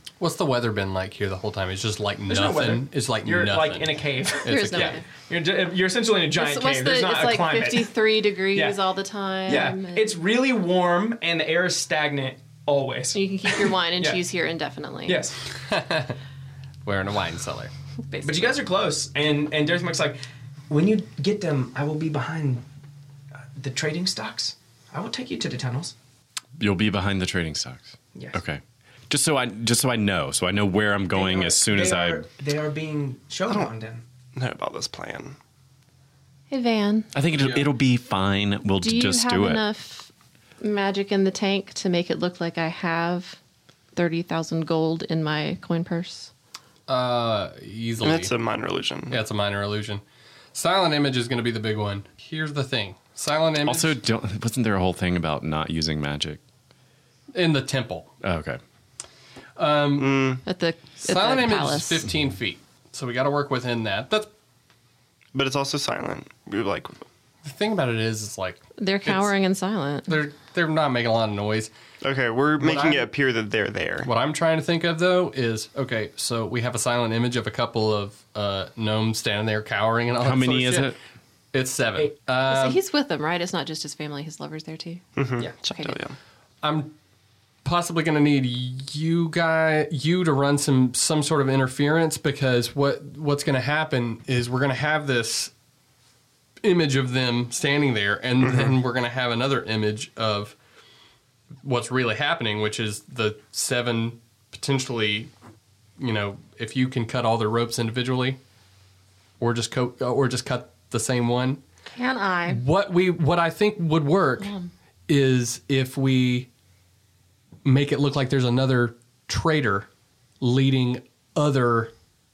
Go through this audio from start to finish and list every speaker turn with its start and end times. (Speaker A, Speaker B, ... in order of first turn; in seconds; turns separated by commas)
Speaker A: 0.2-5.0, Speaker B: 2.3-8.0, Speaker C: 4.5-5.0, Speaker C: 6.3-10.2, Speaker B: 8.5-8.8, Speaker B: 9.5-14.2, Speaker C: 13.1-15.2, Speaker B: 15.1-15.4, Speaker A: 15.7-16.1, Speaker A: 16.8-17.7, Speaker C: 18.1-18.6, Speaker B: 18.2-22.6, Speaker B: 23.6-25.9, Speaker D: 26.6-32.2, Speaker B: 28.1-28.4, Speaker B: 31.1-34.0, Speaker E: 34.4-35.4, Speaker C: 36.5-37.1, Speaker D: 37.1-39.6, Speaker C: 38.8-40.1, Speaker C: 40.6-43.4, Speaker C: 43.9-46.3, Speaker A: 46.9-48.3, Speaker E: 48.0-49.2, Speaker A: 49.1-50.0, Speaker A: 50.5-54.0, Speaker D: 53.6-56.4, Speaker A: 57.3-58.1, Speaker D: 58.2-58.6, Speaker A: 59.6-60.3, Speaker E: 60.0-60.4, Speaker C: 60.4-62.0, Speaker A: 61.0-64.3, Speaker E: 65.3-67.0, Speaker A: 67.4-69.3, Speaker C: 68.8-70.1, Speaker A: 70.1-71.7, Speaker E: 72.0-74.1, Speaker A: 72.6-73.1, Speaker A: 74.0-80.9, Speaker D: 80.2-81.0, Speaker A: 81.5-82.8, Speaker C: 82.5-85.1, Speaker E: 85.2-86.2, Speaker C: 85.6-86.0, Speaker A: 86.6-86.9, Speaker A: 87.6-95.5, Speaker A: 96.6-100.5, Speaker E: 98.4-98.7, Speaker A: 101.6-105.3, Speaker A: 106.0-108.4, Speaker A: 109.4-111.6, Speaker C: 111.9-112.6, Speaker A: 112.5-114.5, Speaker C: 114.4-114.7, Speaker A: 115.1-116.5, Speaker A: 117.6-119.9, Speaker A: 120.4-121.9